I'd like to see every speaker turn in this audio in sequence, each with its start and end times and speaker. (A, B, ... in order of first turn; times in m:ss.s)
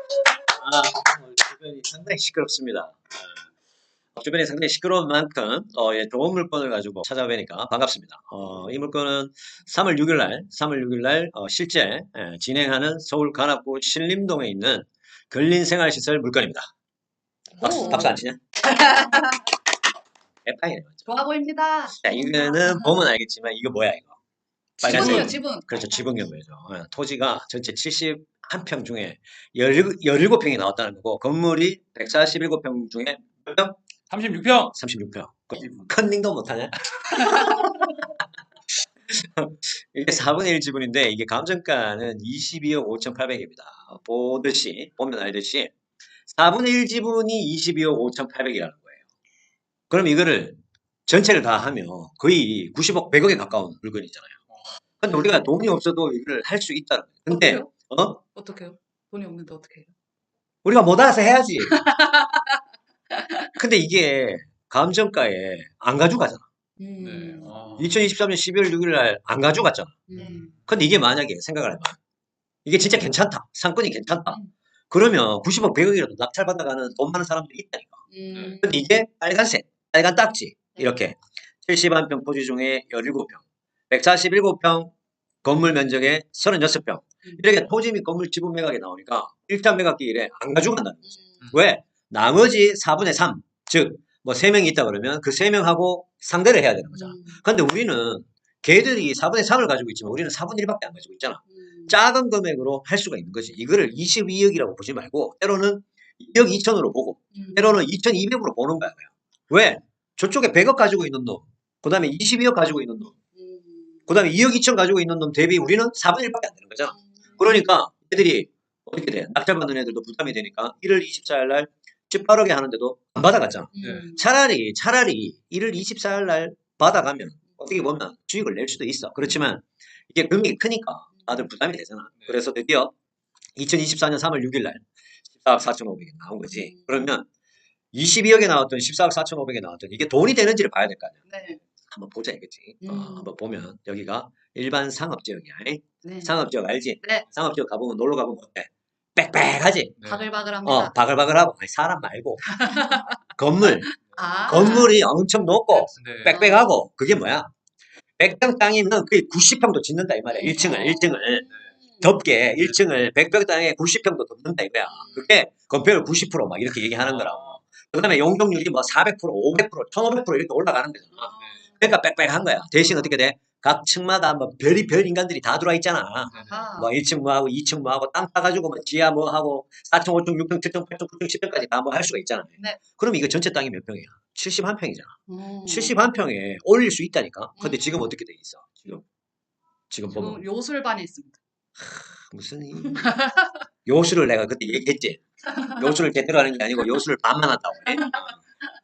0:00.5-0:03.0 A
0:04.1-0:16.7 A
0:17.6-0:18.4 A
0:17.6-0:19.4 B
0:20.4-0:21.1 A
0:21.0-0:22.8 B
0:22.0-0:24.1 A
0:24.8-0:26.2 B
0:24.8-0:25.4 C
0:24.8-0:33.8 A
0:34.1-0:34.7 C
0:34.7-0:38.2 A
0:39.1-0:45.7 A
0:46.3-0:49.0 A
0:49.9-0:54.4 A
0:55.0-0:58.2 A
0:57.3-0:57.7 B
0:58.3-0:59.9 B
1:00.6-1:01.8 A
1:01.7-1:03.5 B
1:03.6-1:06.4 A
1:06.8-1:07.5 B
1:07.0-1:07.9 C
1:07.8-1:10.0 A
1:10.1-1:10.5 B
1:10.7-1:12.0 A
1:12.6-1:14.4 A
1:14.9-1:18.0 A
1:18.1-1:18.7 B
1:18.5-1:24.9 A
1:25.4-1:53.1 A
1:37.0-1:37.4 B
1:41.6-1:41.9 B
1:47.3-1:47.8 B
1:53.4-1:54.0 B
1:54.1-2:12.9 A
1:56.9-1:57.5 B
2:03.7-2:04.2 B
2:03.8-2:04.1 C
2:13.6-2:14.8 A
2:15.4-2:17.2 A
2:16.5-2:17.1 B
2:17.9-2:21.2 A
2:21.3-2:21.6 B
2:21.8-2:30.0 A
2:22.8-2:23.3 B
2:26.0-2:26.3 B
2:27.0-2:27.3 B
2:30.0-2:30.3 C
2:30.0-2:30.9 B
2:30.6-2:32.6 A
2:32.4-2:33.2 B
2:33.4-2:33.9 A
2:33.8-2:34.9 B
2:34.5-2:37.5 A
2:35.9-2:36.4 C
2:36.2-2:36.7 B
2:38.2-2:41.5 A
2:40.3-2:42.0 B
2:42.0-3:09.0 A
2:44.9-2:45.3 B
2:56.3-2:56.7 C
2:56.5-2:56.9 B
3:05.3-3:05.9 B
3:07.6-3:07.9 B
3:09.9-3:10.4 A
3:10.1-3:11.4 B
3:11.8-3:13.1 A
3:12.9-3:13.6 B
3:13.8-3:18.4 A
3:15.5-3:15.9 B
3:17.9-3:18.2 B